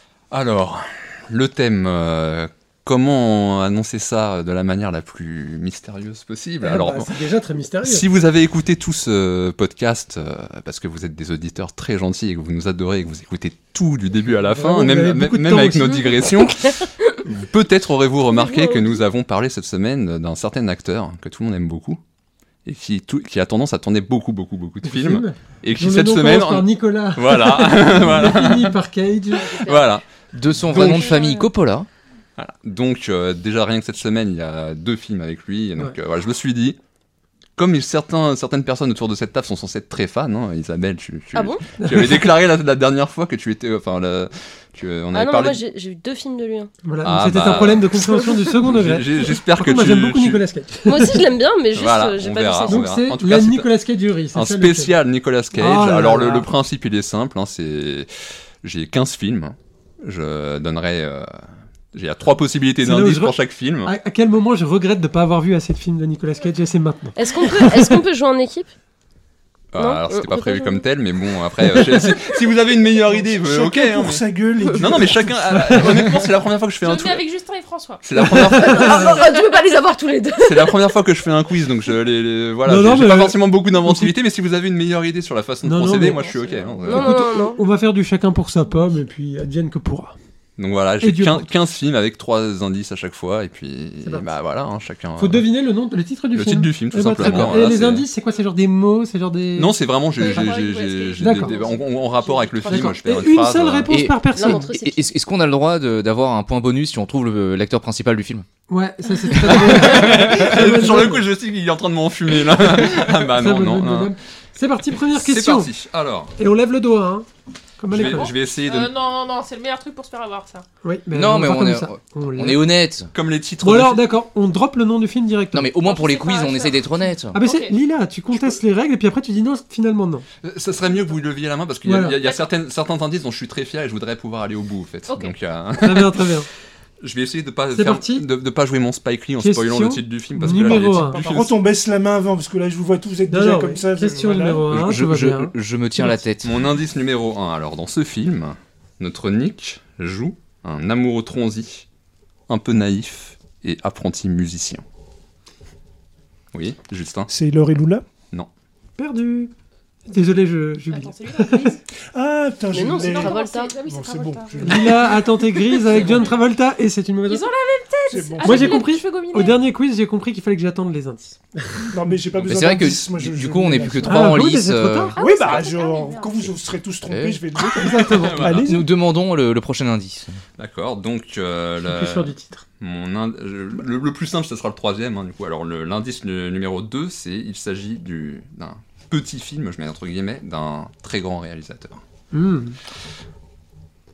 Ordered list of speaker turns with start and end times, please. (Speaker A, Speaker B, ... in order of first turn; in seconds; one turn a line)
Speaker A: 0.3-7.2
Speaker B: 6.6-8.1
Speaker A: 7.8-22.0
Speaker B: 14.4-16.0
Speaker C: 15.9-17.2
Speaker C: 18.3-19.1
Speaker A: 22.6-28.8
Speaker B: 24.8-29.5
Speaker D: 29.4-30.0
Speaker A: 29.4-30.0
Speaker E: 30.3-31.9
Speaker D: 30.6-31.5
Speaker A: 32.4-36.8
Speaker A: 37.6-45.6
Speaker C: 41.3-41.7
Speaker B: 41.8-42.3
Speaker C: 45.1-46.7
Speaker B: 46.8-51.2
Speaker A: 47.0-50.4
Speaker C: 50.8-52.9
Speaker A: 51.7-53.7
Speaker B: 52.6-55.0
Speaker A: 54.3-58.1
Speaker B: 55.5-56.5
Speaker A: 58.6-61.3
Speaker A: 61.9-63.9
Speaker B: 62.8-68.0
Speaker C: 67.2-68.7
Speaker A: 69.7-74.2
Speaker C: 69.8-70.9
Speaker F: 73.3-75.9
Speaker A: 74.8-77.2
Speaker B: 75.7-76.1
Speaker D: 76.8-79.2
Speaker A: 78.0-79.1
Speaker C: 78.2-80.9
Speaker B: 78.4-78.8
Speaker A: 80.4-87.0
Speaker B: 82.7-84.2
Speaker B: 85.6-90.2
Speaker C: 86.8-87.6
Speaker A: 90.6-95.5
Speaker B: 91.0-91.5
Speaker B: 94.0-94.3
Speaker B: 95.2-99.8
Speaker A: 96.3-98.1
Speaker E: 97.2-97.6
Speaker A: 99.5-104.0
Speaker D: 100.1-102.9
Speaker B: 101.2-101.6
Speaker B: 102.6-104.8
Speaker E: 103.9-108.5
Speaker C: 104.3-105.1
Speaker B: 108.7-111.3
Speaker A: 109.3-114.1
Speaker B: 112.8-115.7
Speaker A: 115.1-116.3
Speaker B: 116.3-117.3
Speaker B: 117.8-118.3
Speaker A: 117.9-118.9
Speaker D: 118.0-120.6
Speaker B: 120.8-122.8
Speaker E: 121.1-123.1
Speaker A: 123.1-124.0
Speaker B: 123.6-125.7
Speaker E: 125.5-127.4
Speaker D: 125.8-127.7
Speaker B: 127.3-130.2
Speaker A: 130.4-136.4
Speaker B: 131.8-132.2
Speaker D: 132.1-132.5
Speaker D: 135.1-135.4
Speaker B: 135.8-136.5
Speaker A: 137.0-141.6
Speaker B: 137.7-138.3
Speaker B: 139.4-141.2
Speaker F: 140.5-144.9
Speaker B: 143.3-146.2
Speaker E: 144.7-146.5
Speaker A: 146.4-151.8
Speaker A: 152.5-154.8
Speaker A: 156.5-157.3
Speaker F: 157.3-158.0
Speaker B: 159.0-159.5
Speaker B: 160.1-161.8
Speaker D: 160.9-161.8
Speaker F: 162.1-165.3
Speaker C: 162.7-163.7
Speaker D: 162.9-166.3
Speaker B: 164.6-167.5
Speaker D: 167.3-169.6
Speaker F: 168.1-168.9
Speaker B: 168.4-171.9
Speaker F: 171.9-174.5
Speaker E: 172.5-175.1
Speaker B: 174.0-175.1
Speaker F: 175.1-178.9
Speaker D: 175.2-176.5
Speaker E: 177.1-177.4
Speaker A: 177.6-178.7
Speaker B: 177.7-178.7
Speaker E: 178.7-180.4
Speaker A: 180.6-192.0
Speaker B: 181.8-182.6
Speaker B: 192.3-192.8